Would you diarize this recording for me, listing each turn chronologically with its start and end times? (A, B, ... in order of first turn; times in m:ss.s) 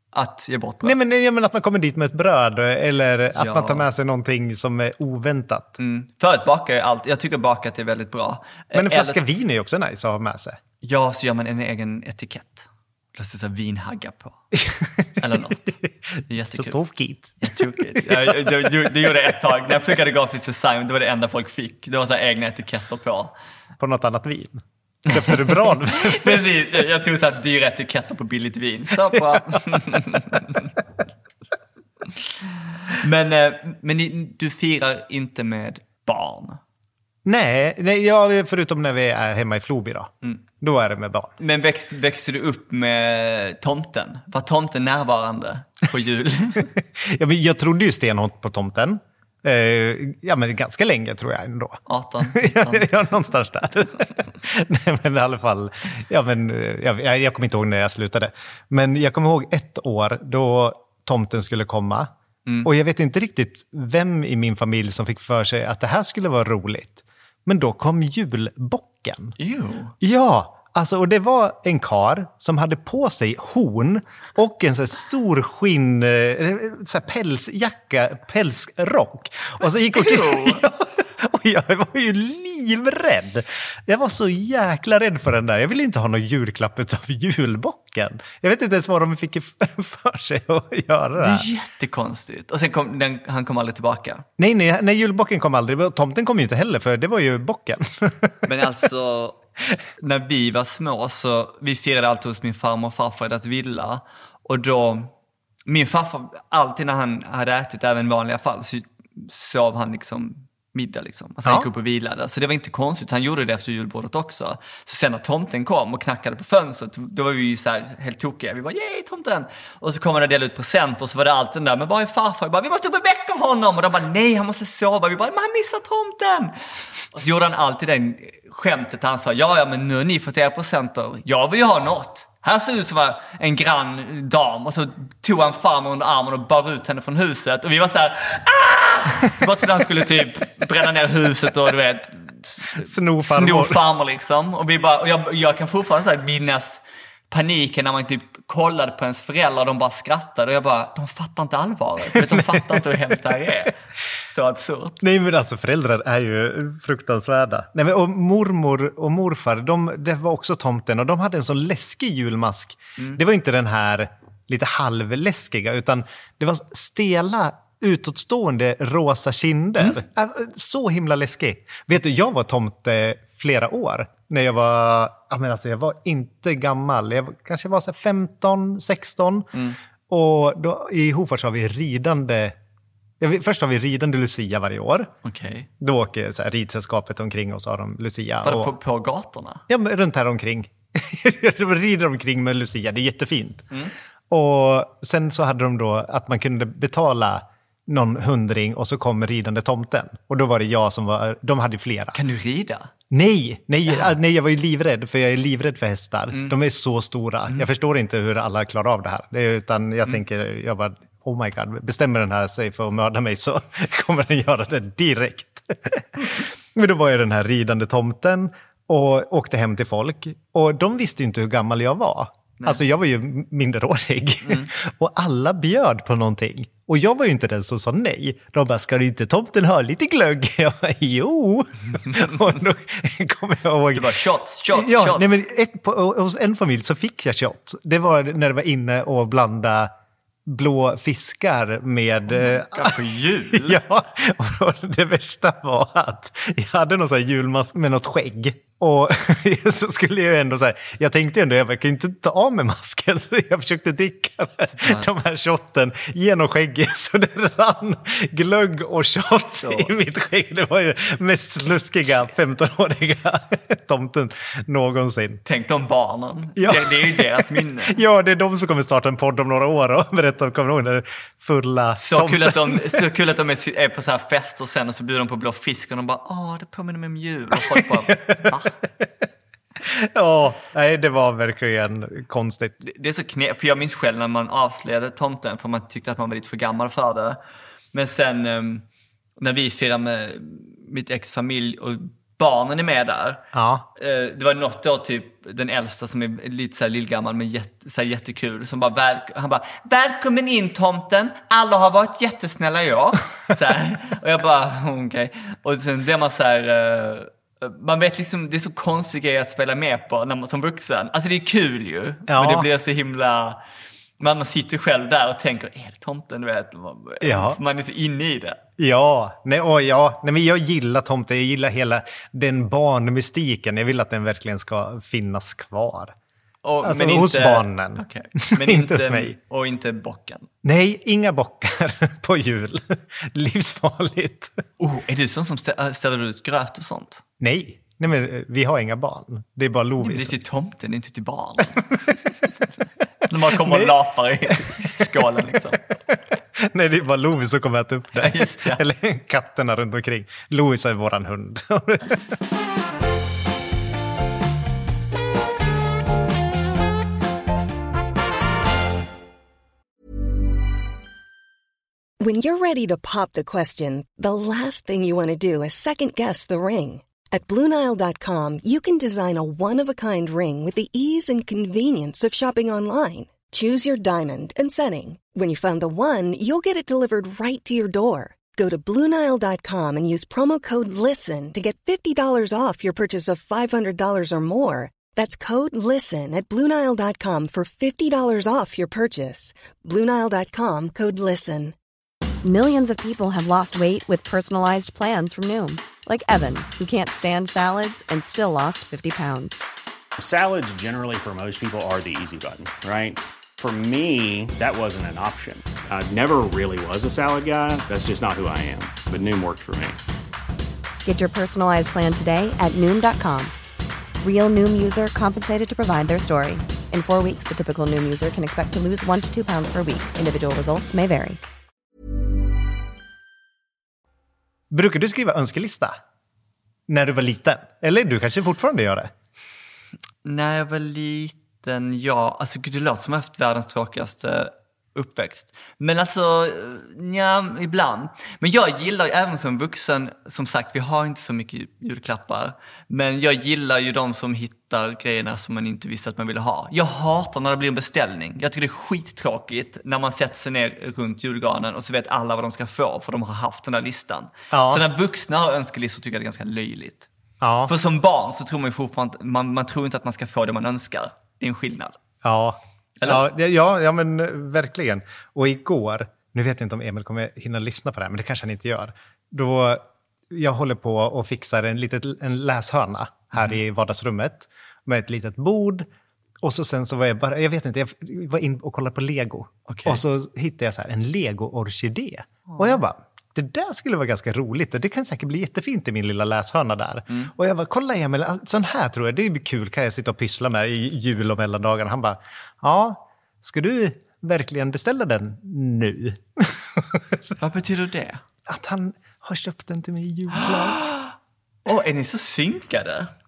0:00.1-0:01.0 A
0:00.8-0:05.7 B
0:03.3-0:03.9 A
0:05.8-0:09.2 A
0:08.7-0:10.6 B
0:10.8-0:14.4 A
0:14.5-0:18.7 B
0:15.2-0:15.7 A
0:16.3-0:16.8 A
0:17.4-0:23.3 A
0:23.8-0:26.4 B
0:25.2-0:30.7 A
0:29.1-0:29.4 B
0:32.9-0:36.6 A
0:37.2-0:41.3 B
0:41.4-0:46.7 A
0:46.8-1:02.1 B
0:51.9-0:52.9 A
1:02.6-1:09.3 B
1:09.4-1:09.9 A
1:10.0-1:31.5 B
1:19.9-1:20.6 A
1:31.2-1:34.2 A
1:34.4-1:38.5 B
1:38.4-1:39.4 A
1:40.0-1:45.1 A
1:45.7-2:35.0 A
2:22.8-2:23.8 B
2:32.1-2:32.9 B
2:35.0-2:59.5 B
3:00.1-3:02.6 B
3:03.2-3:05.1 B
3:05.2-3:05.7 A
3:05.8-3:08.8 B
3:08.4-3:09.6 A
3:09.7-3:13.7 B
3:14.3-3:22.2 B
3:22.1-3:22.9 A
3:23.1-3:54.1 B
3:26.3-3:26.6 A
3:44.4-3:44.7 A
3:51.9-3:52.5 A
3:53.9-3:55.4 A
3:54.7-3:59.9 B
4:00.4-4:03.0 B
4:02.3-4:03.8 A
4:03.5-4:25.4 B
4:19.6-4:19.9 A
4:25.4-4:28.0 A
4:26.6-4:33.1 B
4:32.0-4:38.8 A
4:37.5-4:39.1 B
4:39.8-4:42.8 B
4:42.8-4:47.4 A
4:47.9-4:48.8 A
4:49.4-4:53.4 A
4:53.5-4:53.8 B
4:54.0-5:13.6 A
5:12.3-5:12.7 B
5:14.2-5:18.6 A
5:17.2-5:17.6 B
5:18.8-5:26.1 B
5:26.6-5:30.5 A
5:26.8-5:29.4 B
5:30.6-5:34.6 B
5:34.8-5:37.2 A
5:37.4-5:40.4 B
5:40.0-5:41.9 A
5:43.2-5:45.8 A
5:43.5-5:43.9 B
5:44.5-5:45.6 B
5:46.6-5:52.2 B
5:48.1-5:48.8 A
6:02.2-6:31.7 C
6:32.4-6:39.6 D
6:40.2-6:50.0 E
6:51.0-6:53.5 D
6:54.2-7:01.4 D
7:04.7-7:06.0 B
7:06.9-7:09.1 B
7:10.2-7:37.1 A
7:34.5-7:34.8 B
7:37.4-7:37.7 B
7:37.6-7:42.0 A
7:42.2-7:55.9 B
7:43.0-7:43.2 A
7:56.4-8:17.3 B
7:59.7-8:00.0 A
8:02.5-8:02.8 A
8:17.4-8:18.2 A
8:18.4-8:20.9 B
8:20.4-8:21.1 A
8:21.6-8:23.1 A